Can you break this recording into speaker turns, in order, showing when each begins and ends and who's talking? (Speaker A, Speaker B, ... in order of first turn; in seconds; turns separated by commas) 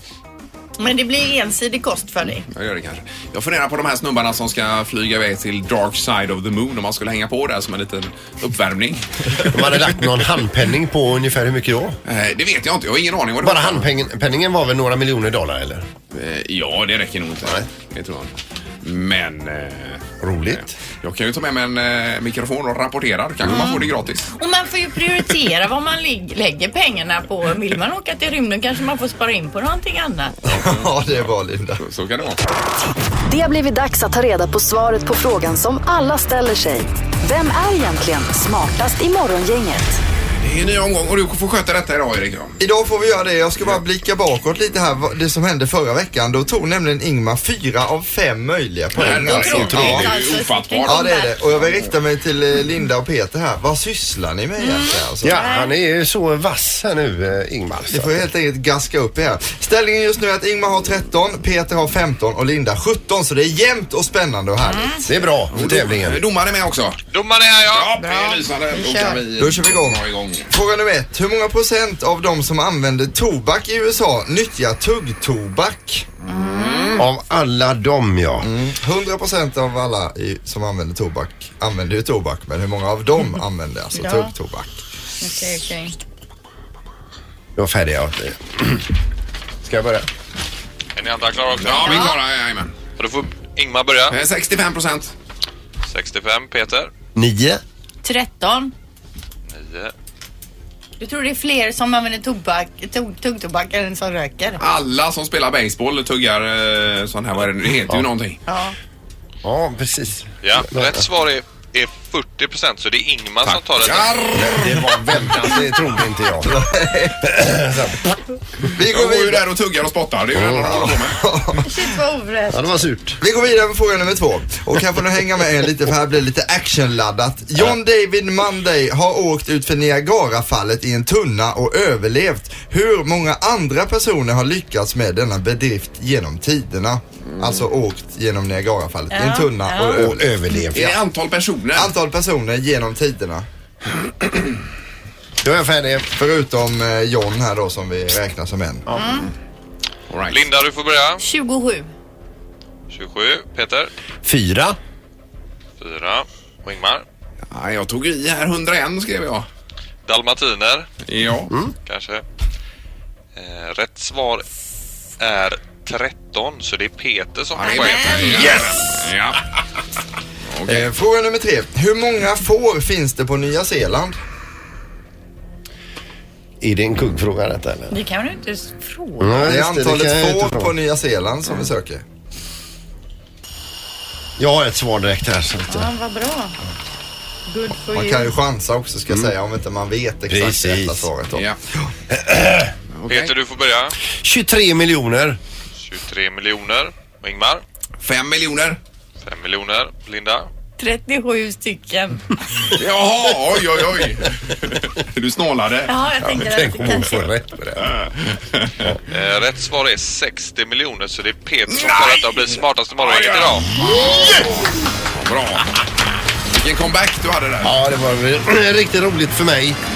Speaker A: 0.8-2.5, Speaker B: 2.5-9.8, Speaker C: 9.4-12.0, Speaker B: 12.1-13.9, Speaker C: 13.4-15.8, Speaker B: 16.1-24.3, Speaker C: 20.2-20.7, Speaker A: 23.5-23.8, Speaker C: 23.5-23.8, Speaker A: 24.3-30.4, Speaker D: 30.5-31.8, Speaker B: 30.7-31.3, Speaker B: 31.8-32.4, Speaker E: 33.3-40.0, Speaker B: 40.4-42.6, Speaker D: 42.6-50.1, Speaker B: 49.0-51.1, Speaker C: 49.1-49.8, Speaker A: 49.4-51.4, Speaker D: 50.8-55.4, Speaker A: 54.6-55.7, Speaker C: 55.2-58.2, Speaker D: 57.9-65.0, Speaker A: 64.7-65.0, Speaker C: 65.0-66.2, Speaker B: 65.5-67.0, Speaker F: 67.1-68.0, Speaker B: 67.7-70.5, Speaker A: 68.0-69.2, Speaker D: 69.4-76.1, Speaker B: 76.2-77.0, Speaker A: 76.3-77.0, Speaker C: 77.0-78.5, Speaker D: 78.4-84.8, Speaker A: 84.0-84.3, Speaker A: 85.2-85.9, Speaker C: 87.5-88.9, Speaker C: 89.6-90.1, Speaker F: 91.0-92.2, Speaker B: 91.6-92.7, Speaker A: 91.8-92.1, Speaker F: 93.0-94.2, Speaker B: 94.1-95.1, Speaker F: 95.8-96.9, Speaker C: 97.1-97.6, Speaker A: 98.0-98.7, Speaker F: 99.5-99.9, Speaker A: 101.0-104.6, Speaker B: 104.6-108.4, Speaker A: 108.5-108.7, Speaker C: 109.4-111.0, Speaker F: 110.4-114.3, Speaker B: 113.4-115.0, Speaker C: 114.3-116.7, Speaker D: 116.4-117.3, Speaker C: 117.2-118.0, Speaker D: 118.7-119.4, Speaker B: 118.8-121.2, Speaker C: 120.3-120.9, Speaker D: 120.6-121.7, Speaker A: 121.6-122.8, Speaker C: 122.5-123.2, Speaker D: 123.2-140.3, Speaker B: 137.3-137.7, Speaker A: 139.1-140.0, Speaker C: 139.9-141.0, Speaker B: 140.7-141.9, Speaker D: 141.8-143.4, Speaker C: 145.4-146.1, Speaker D: 146.1-148.9, Speaker A: 148.9-149.3, Speaker B: 150.1-150.4, Speaker F: 150.3-151.2, Speaker A: 151.2-151.9, Speaker F: 152.9-153.9, Speaker C: 154.2-154.8, Speaker F: 155.8-157.0, Speaker B: 157.5-159.5, Speaker F: 160.1-160.9, Speaker B: 161.1-161.5, Speaker F: 161.8-162.2, Speaker F: 163.3-164.4, Speaker F: 165.2-168.6, Speaker B: 167.6-169.4, Speaker A: 167.7-168.2, Speaker B: 170.5-170.9, Speaker D: 170.7-174.2, Speaker C: 176.6-177.9, Speaker A: 177.9-179.4, Speaker C: 179.2-180.7, Speaker D: 179.4-182.0, Speaker C: 184.4-185.9, Speaker A: 185.7-186.5, Speaker A: 187.5-188.3, Speaker D: 187.8-191.9, Speaker C: 190.3-191.1, Speaker B: 191.3-191.6, Speaker C: 192.1-192.7, Speaker B: 192.9-193.3, Speaker F: 193.1-193.9, Speaker C: 194.1-195.4, Speaker F: 195.8-197.6, Speaker B: 198.0-198.8, Speaker F: 199.2-200.5, Speaker A: 200.8-202.2, Speaker B: 202.7-205.9, Speaker A: 205.9-207.2, Speaker C: 206.2-207.9, Speaker F: 209.1-213.7, Speaker B: 211.7-215.8, Speaker C: 213.9-214.6, Speaker B: 216.5-217.8, Speaker C: 217.6-219.8